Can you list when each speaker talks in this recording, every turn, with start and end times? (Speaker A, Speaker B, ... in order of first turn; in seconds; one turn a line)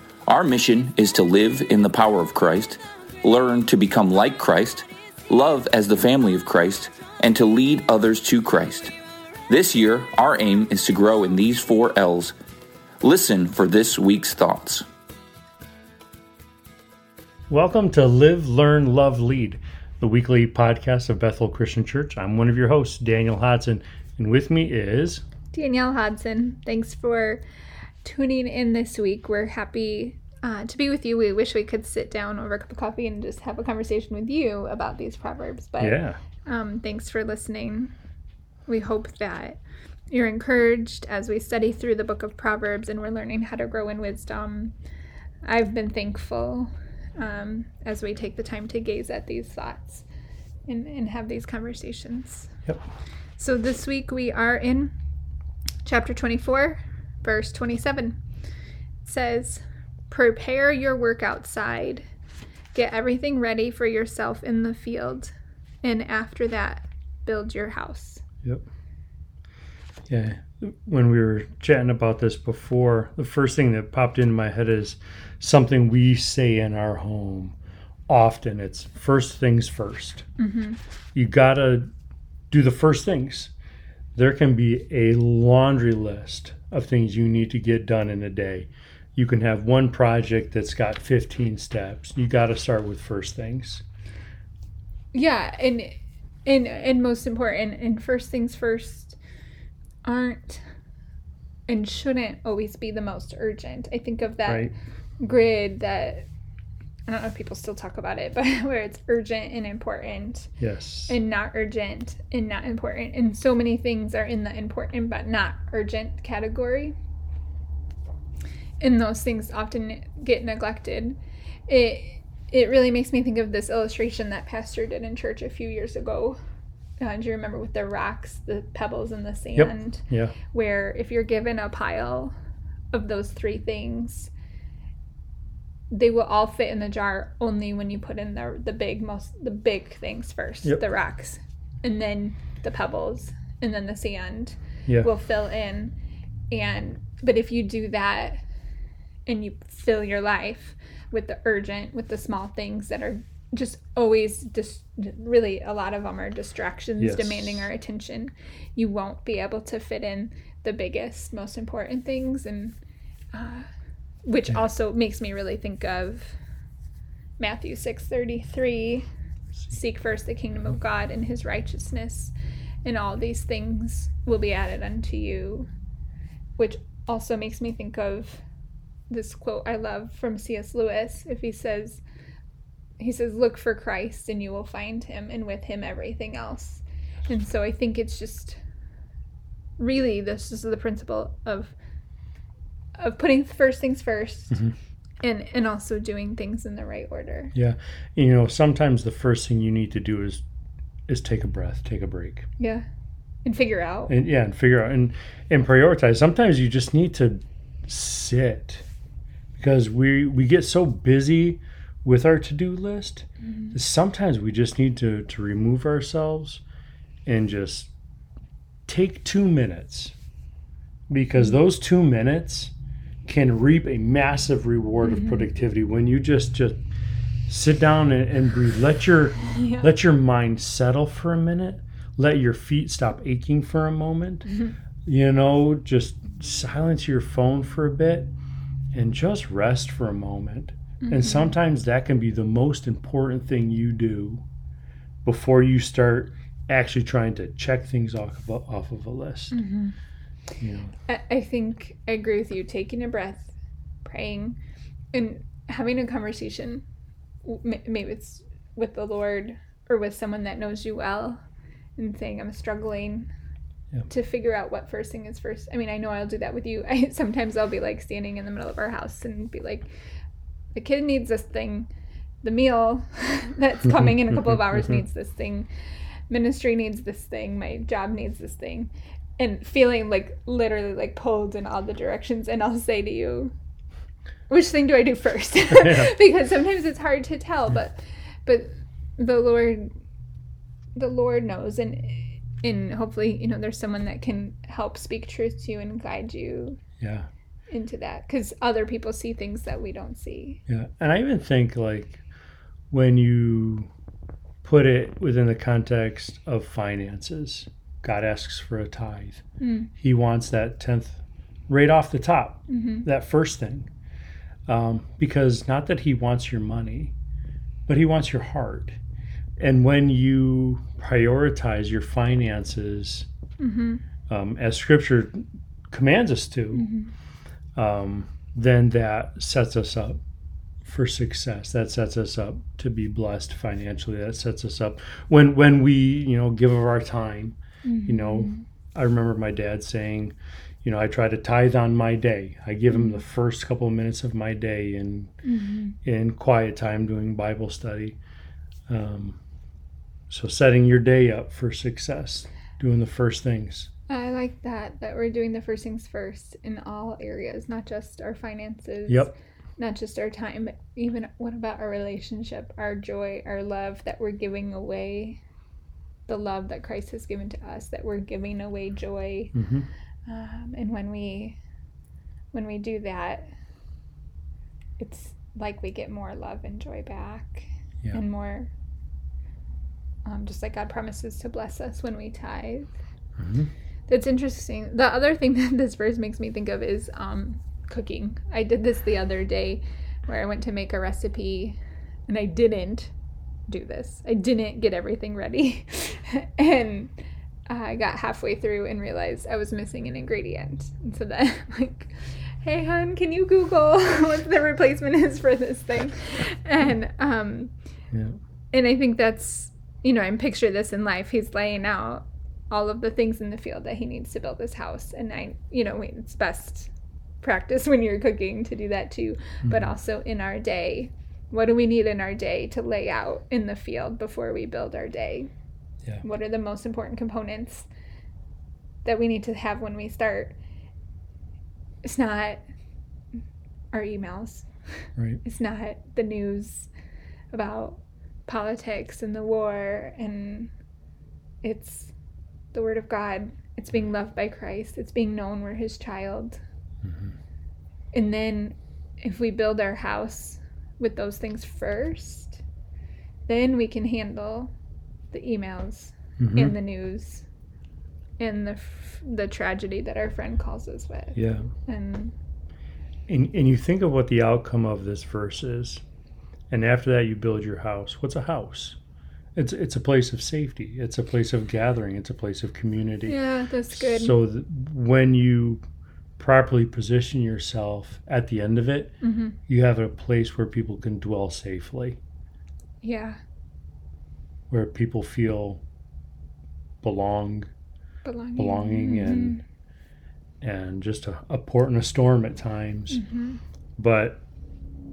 Speaker A: 0.3-8.9
Speaker A: 9.5-12.3
Speaker A: 13.0-14.9
Speaker B: 17.5-25.2
Speaker C: 25.5-27.4
Speaker C: 28.0-37.9
Speaker B: 35.8-36.2
Speaker C: 38.7-44.7
Speaker C: 45.5-50.0
Speaker C: 50.7-52.5
Speaker C: 53.4-54.9
Speaker C: 55.8-58.2
Speaker C: 59.0-62.0
Speaker C: 62.7-68.2
Speaker B: 70.1-77.6
Speaker B: 78.1-80.2
Speaker C: 80.4-80.8
Speaker B: 81.1-81.9
Speaker B: 82.5-83.5
Speaker B: 84.1-93.8
Speaker C: 95.1-99.2
Speaker C: 100.0-100.6
Speaker C: 101.7-106.3
Speaker B: 104.5-104.7
Speaker C: 107.1-110.5
Speaker B: 110.6-111.2
Speaker C: 111.1-116.9
Speaker C: 118.8-126.4
Speaker C: 127.0-132.3
Speaker B: 129.5-130.3
Speaker C: 132.9-134.3
Speaker C: 135.9-145.9
Speaker C: 146.5-148.4
Speaker C: 149.2-162.8
Speaker B: 157.0-157.7
Speaker C: 163.3-163.7
Speaker C: 164.2-166.4
Speaker C: 167.4-169.0
Speaker C: 169.7-175.7
Speaker C: 176.6-178.4
Speaker C: 179.1-182.0
Speaker C: 183.0-188.6
Speaker C: 189.8-191.7
Speaker C: 193.0-194.6
Speaker C: 195.2-197.5
Speaker B: 197.5-200.4
Speaker B: 201.1-202.5
Speaker C: 202.6-202.8
Speaker C: 203.4-204.1
Speaker B: 204.1-208.8
Speaker B: 209.6-216.6
Speaker C: 213.4-213.8
Speaker B: 217.2-217.9
Speaker B: 218.9-220.1
Speaker B: 221.1-222.7
Speaker B: 223.2-226.8
Speaker C: 225.0-225.5
Speaker B: 227.5-234.5
Speaker C: 229.4-229.9
Speaker C: 234.5-234.7
Speaker B: 235.1-238.3
Speaker B: 238.9-244.4
Speaker C: 241.0-241.6
Speaker B: 245.2-249.6
Speaker C: 249.5-249.9
Speaker B: 250.6-250.9
Speaker C: 251.1-254.6
Speaker C: 255.1-256.8
Speaker C: 257.4-261.4
Speaker C: 262.0-263.3
Speaker C: 264.1-269.9
Speaker C: 270.8-271.9
Speaker C: 272.4-275.7
Speaker B: 274.3-274.9
Speaker C: 276.3-283.5
Speaker C: 284.5-289.9
Speaker B: 285.7-286.1
Speaker C: 290.9-296.8
Speaker B: 297.0-297.3
Speaker C: 297.7-300.6
Speaker B: 300.7-302.2
Speaker B: 302.9-303.9
Speaker B: 304.6-309.4
Speaker C: 309.6-309.9
Speaker B: 310.0-313.9
Speaker C: 312.7-313.1
Speaker B: 314.7-317.1
Speaker B: 317.9-319.0
Speaker B: 319.6-323.3
Speaker C: 323.6-324.0
Speaker B: 324.3-326.9
Speaker C: 326.7-327.1
Speaker B: 327.8-330.2
Speaker B: 330.8-345.3
Speaker C: 337.8-338.6
Speaker C: 342.9-343.2
Speaker C: 345.4-345.9
Speaker B: 346.0-348.2
Speaker B: 348.9-349.4
Speaker B: 350.3-353.9
Speaker C: 354.1-365.4
Speaker B: 359.1-359.3
Speaker C: 366.3-369.5
Speaker B: 369.5-369.9
Speaker C: 370.2-371.6
Speaker C: 372.5-373.5
Speaker C: 375.0-378.7
Speaker C: 380.2-382.9
Speaker B: 383.4-383.7
Speaker C: 384.1-393.1
Speaker C: 393.7-397.1
Speaker C: 397.7-407.7
Speaker B: 408.1-408.4
Speaker C: 408.7-425.5
Speaker B: 419.6-419.9
Speaker C: 426.2-427.9
Speaker C: 429.1-430.6
Speaker C: 432.0-432.6
Speaker C: 433.9-434.7
Speaker B: 435.2-435.4
Speaker C: 435.4-436.9
Speaker C: 437.5-440.7
Speaker C: 441.6-442.1
Speaker C: 442.7-446.6
Speaker B: 447.0-447.4
Speaker C: 448.1-452.6
Speaker C: 453.5-454.7
Speaker C: 455.3-457.4
Speaker B: 456.4-456.8
Speaker C: 458.4-462.3
Speaker B: 461.4-461.7
Speaker B: 463.3-466.0
Speaker B: 466.7-469.0
Speaker B: 469.6-475.8
Speaker C: 473.2-474.4
Speaker B: 476.4-479.1
Speaker C: 479.2-479.6
Speaker B: 479.7-482.2
Speaker C: 483.0-483.4
Speaker B: 484.7-485.8
Speaker B: 487.0-487.7
Speaker C: 488.2-489.6
Speaker B: 488.6-489.6
Speaker B: 490.6-493.2
Speaker C: 493.1-493.6
Speaker B: 494.0-494.4